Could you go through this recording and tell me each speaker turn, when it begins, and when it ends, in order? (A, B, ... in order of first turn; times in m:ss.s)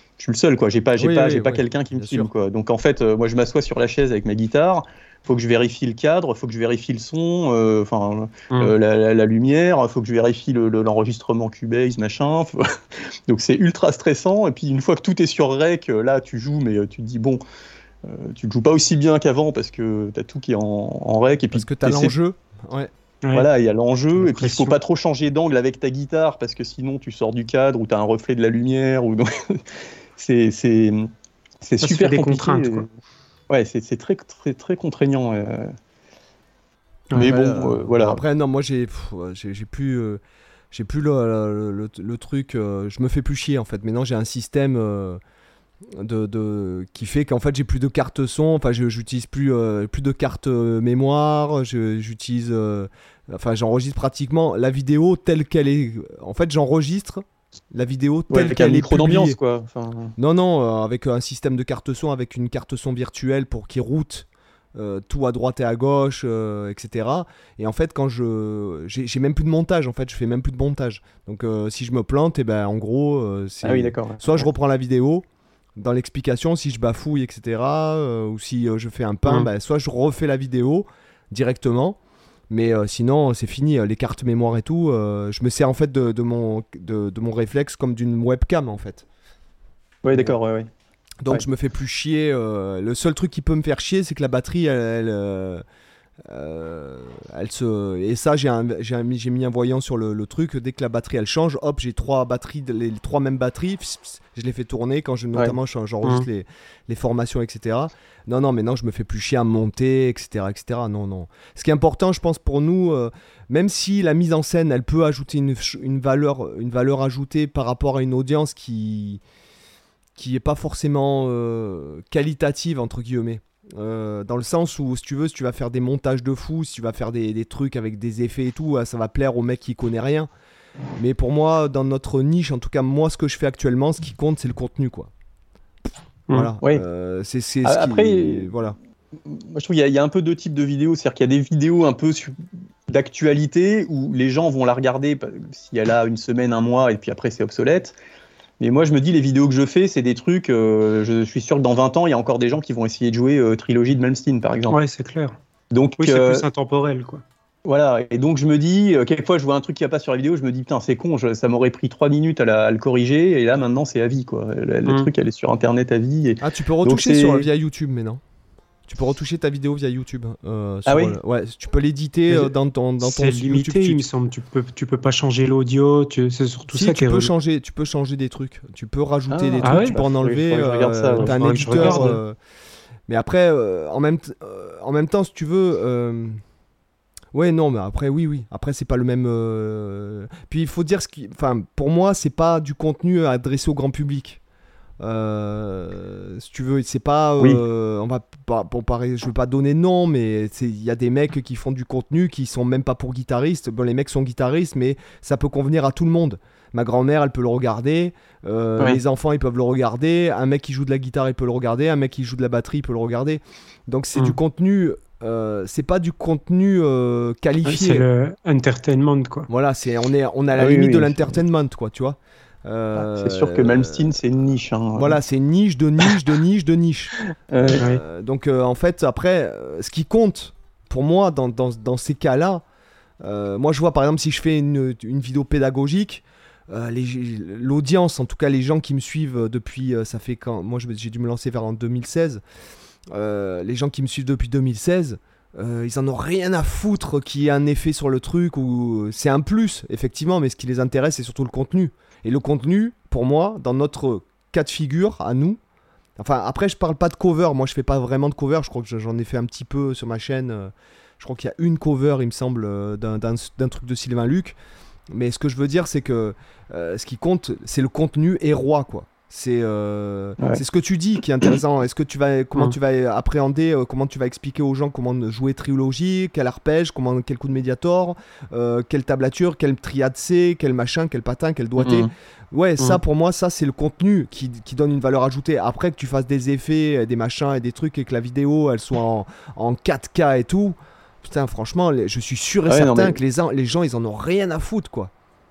0:00.2-0:17.4 A
0:01.0-0:02.3 B
0:18.0-0:22.2 A
0:21.5-0:22.9 B
0:23.3-0:29.6 A
0:24.2-0:24.8 C
0:30.2-0:31.1 A
0:31.6-0:32.9 A
0:31.8-0:32.8 C
0:33.5-0:35.8 A
0:37.1-0:38.2 A
0:37.2-0:40.2 B
0:40.7-0:45.2 B
0:45.9-0:59.4 B
0:58.3-1:00.2 A
1:00.2-1:15.2 B
1:13.6-1:14.5 A
1:15.8-1:22.0 B
1:22.5-1:29.0 B
1:30.0-1:30.7 A
1:31.2-1:35.6 B
1:36.2-1:59.2 B
2:00.2-2:10.3 B
2:11.0-2:15.1 B
2:16.3-2:18.8 B
2:17.6-2:18.5 A
2:19.2-2:22.4 A
2:22.9-2:28.0 A
2:28.6-2:34.8 A
2:34.7-2:35.4 C
2:35.7-2:36.5 A
2:36.0-2:37.2 C
2:37.6-2:47.5 A
2:46.4-2:48.2 B
2:48.9-2:54.0 B
2:50.9-2:51.2 A
2:53.0-2:57.3 C
2:56.7-3:02.4 B
2:59.3-3:02.1 A
2:59.6-3:00.0 C
3:01.2-3:02.2 C
3:03.1-3:06.4 B
3:07.3-3:14.4 B
3:15.0-3:38.0 B
3:37.6-3:39.5 C
3:39.5-3:44.2 B
3:40.6-3:41.4 A
3:43.0-3:45.2 A
3:45.0-3:47.2 B
3:47.5-3:47.8 A
3:47.7-3:52.6 B
3:53.2-4:02.4 B
4:03.1-4:15.6 B
4:16.2-4:24.6 B
4:25.1-4:55.1 B
4:41.8-4:42.1 A
4:52.7-4:53.2 A